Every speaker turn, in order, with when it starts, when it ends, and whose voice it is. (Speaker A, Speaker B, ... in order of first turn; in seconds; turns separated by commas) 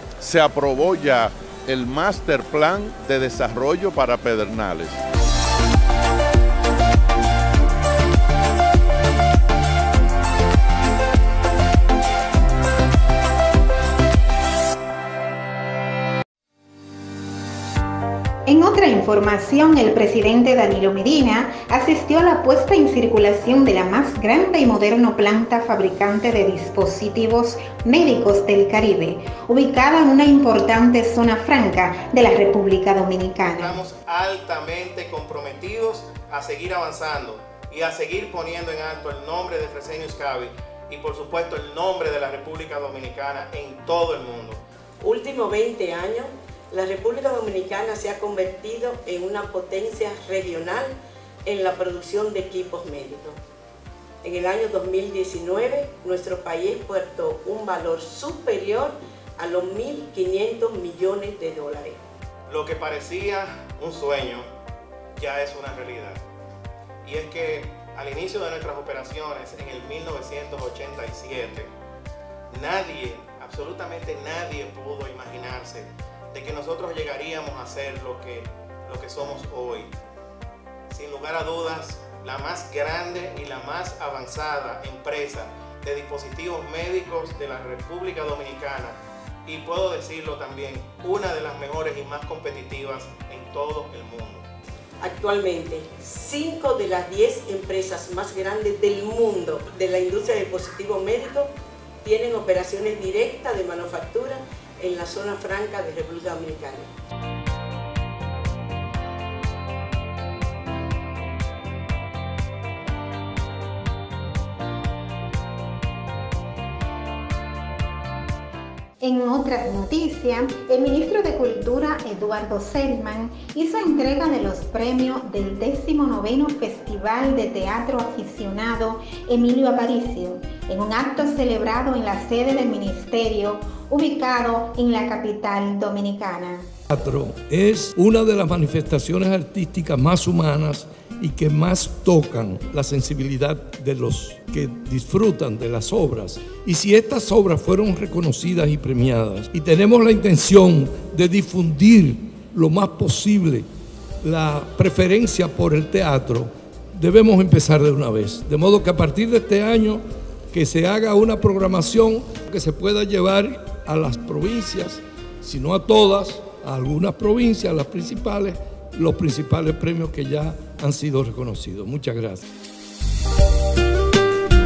Speaker A: 0.2-5.0, Speaker B: 18.4-33.8, Speaker C: 33.4-44.6, Speaker D: 45.0-53.4, Speaker D: 54.2-62.0, Speaker C: 62.5-64.5, Speaker C: 65.2-66.2, Speaker C: 67.0-71.7, Speaker C: 72.5-79.9, Speaker C: 80.9-94.4, Speaker D: 95.0-101.5, Speaker D: 102.0-106.9, Speaker B: 119.0-136.7, Speaker E: 136.9-153.7, Speaker E: 154.2-172.4